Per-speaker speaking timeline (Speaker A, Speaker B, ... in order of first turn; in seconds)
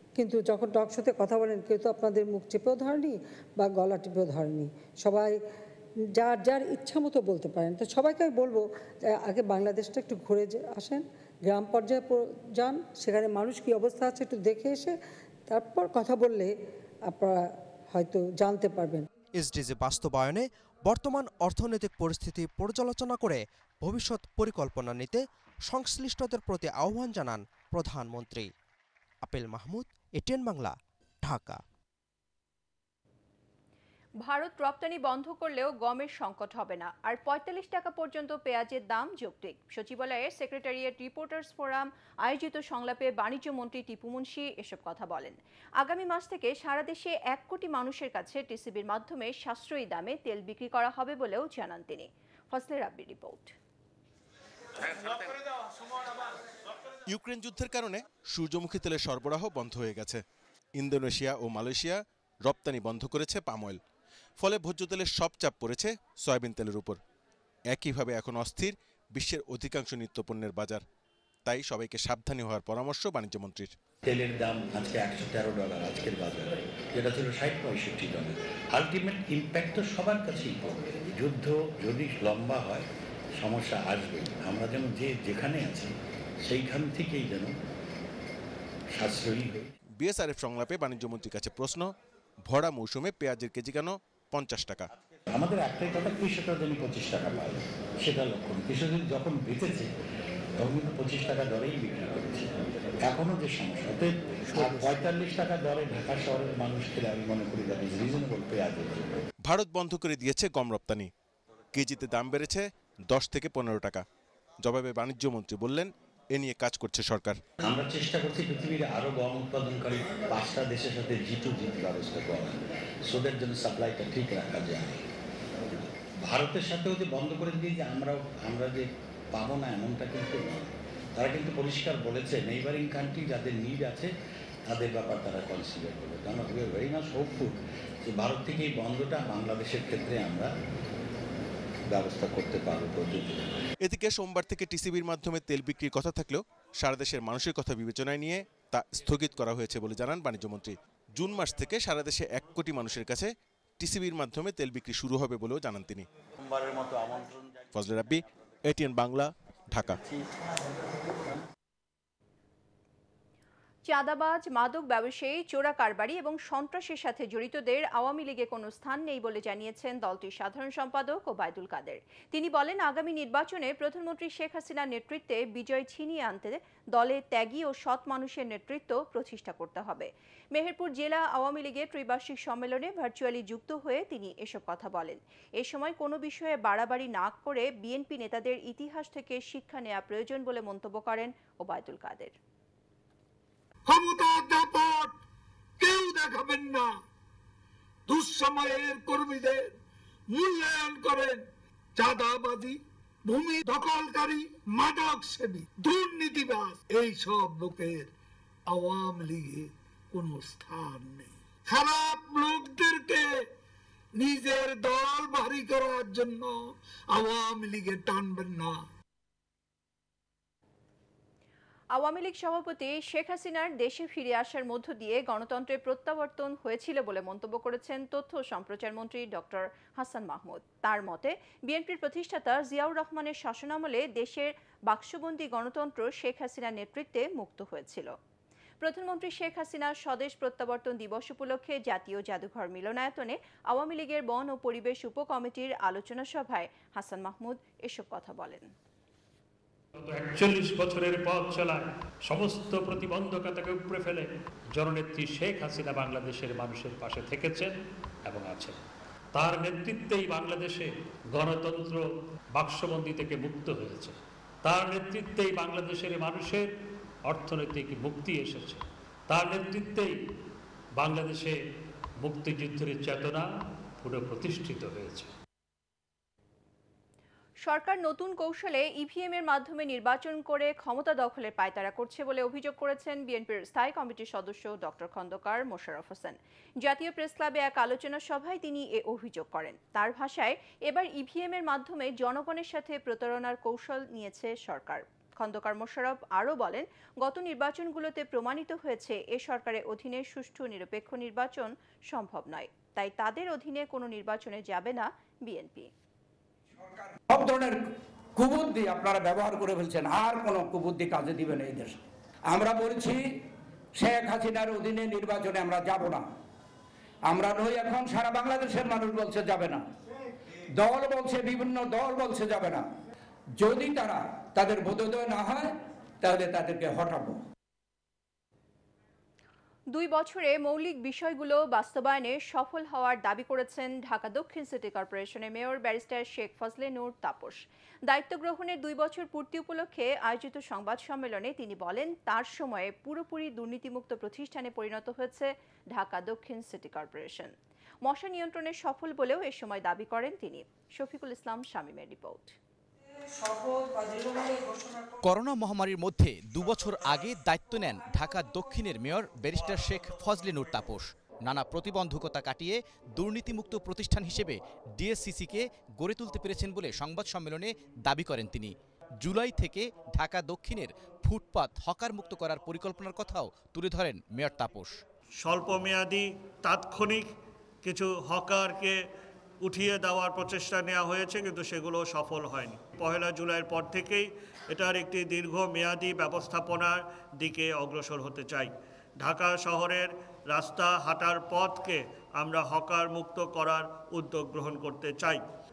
Speaker A: 0.2-5.3, 6.2-15.0, 15.5-16.6, 17.1-17.4, 17.9-19.0
Speaker B: 19.4-28.5, 29.2-31.6
Speaker C: 34.2-53.5, 163.9-192.3, 221.9-238.1, 238.8-248.7, 277.6-305.9, 329.9-352.6
Speaker D: 57.1-60.2, 60.8-63.8, 64.4-67.0, 67.7-70.8, 71.5-73.7, 90.0-91.9, 92.5-94.9, 109.5-111.1, 111.7-114.0, 114.6-117.4, 143.8-156.1, 157.7-160.0
Speaker E: 74.0-82.9, 83.4-85.9, 86.5-87.5, 89.0-89.7, 95.3-99.9, 100.6-102.5, 103.0-109.2, 117.6-125.0, 126.2-134.1, 134.7-140.5, 141.9-143.5, 156.6-157.3
Speaker F: 193.9-195.2, 195.8-197.0, 198.1-199.7, 200.3-208.1, 208.7-213.5, 214.2-218.8
Speaker G: 250.1-257.7, 258.3-258.8, 259.4-266.7, 267.3-270.1, 271.0-271.6, 272.2-273.5, 274.0-275.3
Speaker H: 307.3-307.8, 308.4-312.0, 312.5-313.2, 313.9-316.3, 317.3-319.8, 320.8-322.9, 323.6-325.7, 326.2-327.4
Speaker I: 355.2-375.0
Speaker J: 375.4-377.3, 377.8-379.0, 379.6-395.4